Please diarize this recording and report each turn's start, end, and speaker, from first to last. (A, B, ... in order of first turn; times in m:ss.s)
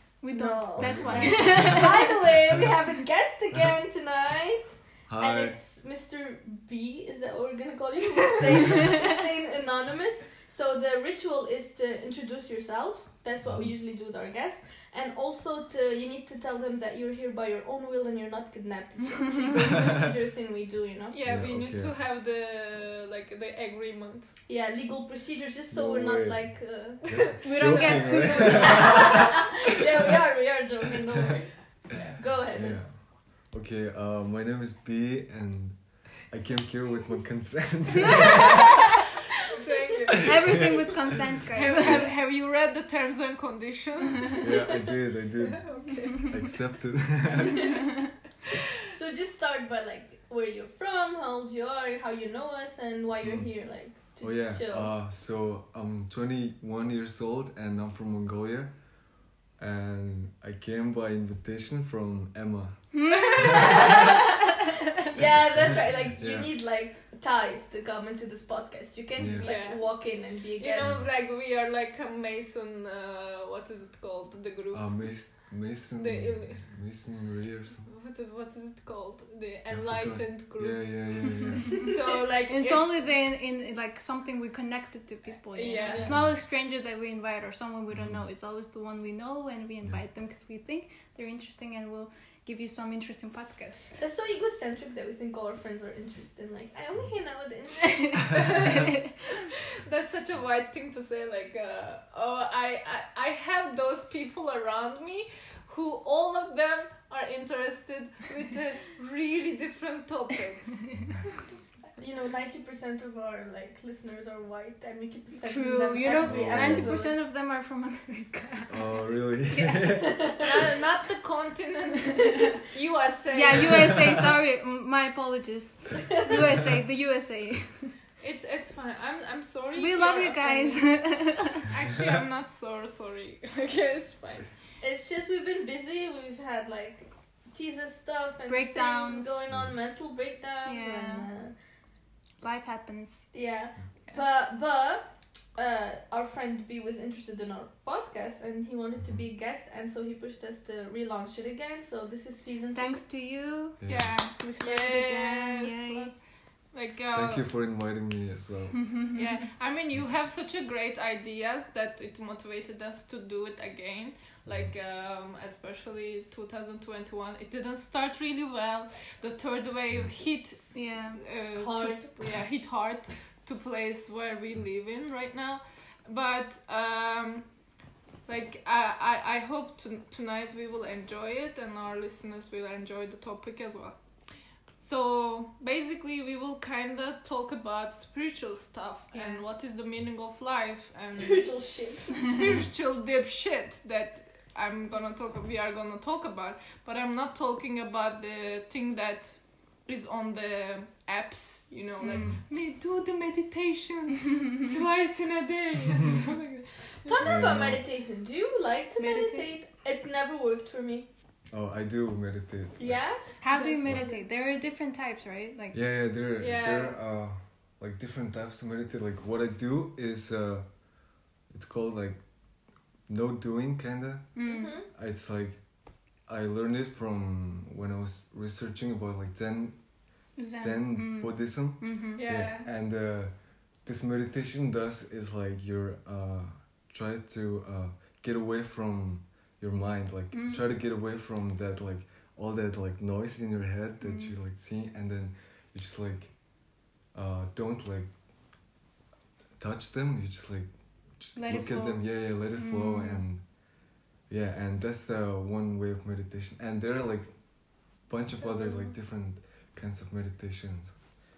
0:00.2-0:02.2 A
0:00.3-0:21.4 B
0:00.8-0:02.8 C
0:05.1-0:05.6 C
0:08.4-0:08.8 C
0:13.4-0:13.7 C
0:21.1-0:24.4 D
0:21.2-0:22.0 C
0:24.5-0:32.9 B
0:25.7-0:29.6 C
0:27.4-0:29.1 A
0:32.5-0:39.0 C
0:39.5-0:40.7 D
0:40.2-0:41.0 C
0:40.2-0:42.1 A
0:41.5-0:44.5 D
0:41.7-0:42.1 C
0:44.4-0:47.6 C
0:44.6-0:44.9 B
0:45.6-0:46.6 D
0:47.4-0:47.9 B
0:48.9-0:54.9 B
0:53.2-0:58.8 C
0:59.6-1:03.3 C
1:02.9-1:03.8 A
1:03.1-1:04.2 B
1:05.1-1:11.0 B
1:05.2-1:06.5 C
1:09.2-1:09.5 C
1:09.4-1:16.7 D
1:10.8-1:11.1 C
1:14.7-1:17.9 C
1:17.8-1:23.1 D
1:19.7-1:21.9 C
1:22.5-1:33.9 A
1:25.5-1:26.1 D
1:25.7-1:26.1 B
1:26.0-1:26.4 C
1:27.9-1:28.2 C
1:33.9-1:38.8 B
1:38.4-1:38.9 D
1:39.8-1:51.0 D
1:52.0-1:57.2 B
1:55.4-1:59.0 A
1:56.2-1:57.0 C
1:58.7-2:00.2 C
1:59.6-2:00.4 B
2:00.4-2:04.2 D
2:03.3-2:08.0 A
2:08.2-2:14.5 D
2:09.8-2:11.6 A
2:11.9-2:12.2 C
2:14.8-2:21.6 B
2:18.5-2:19.4 A
2:19.5-2:19.8 C
2:20.6-2:21.3 A
2:22.4-2:23.3 A
2:23.3-2:33.0 B
2:32.7-2:36.2 A
2:33.8-2:34.2 C
2:33.9-2:37.5 D
2:37.1-2:38.9 C
2:38.8-2:39.5 A
2:39.1-2:57.6 D
2:44.4-2:44.7 C
2:50.7-2:51.2 A
2:51.5-2:52.4 B
2:58.2-3:27.4 D
3:09.1-3:09.4 A
3:11.2-3:12.4 B
3:22.0-3:22.3 A
3:27.0-3:31.1 B
3:27.2-3:27.8 C
3:29.0-3:29.5 A
3:31.5-3:33.1 C
3:32.8-3:33.2 B
3:33.4-3:35.8 A
3:33.5-3:34.2 D
3:35.7-3:40.7 C
3:36.4-3:37.0 D
3:41.5-3:42.2 C
3:43.1-3:49.8 C
3:44.3-3:44.7 A
3:44.4-3:44.9 B
3:50.4-3:52.2 A
3:50.6-4:06.4 C
3:52.2-3:52.7 D
4:00.3-4:00.7 A
4:04.0-4:04.3 A
4:07.1-4:08.1 C
4:09.6-4:13.5 C
4:11.3-4:13.3 A
4:14.3-4:21.0 C
4:18.4-4:18.9 D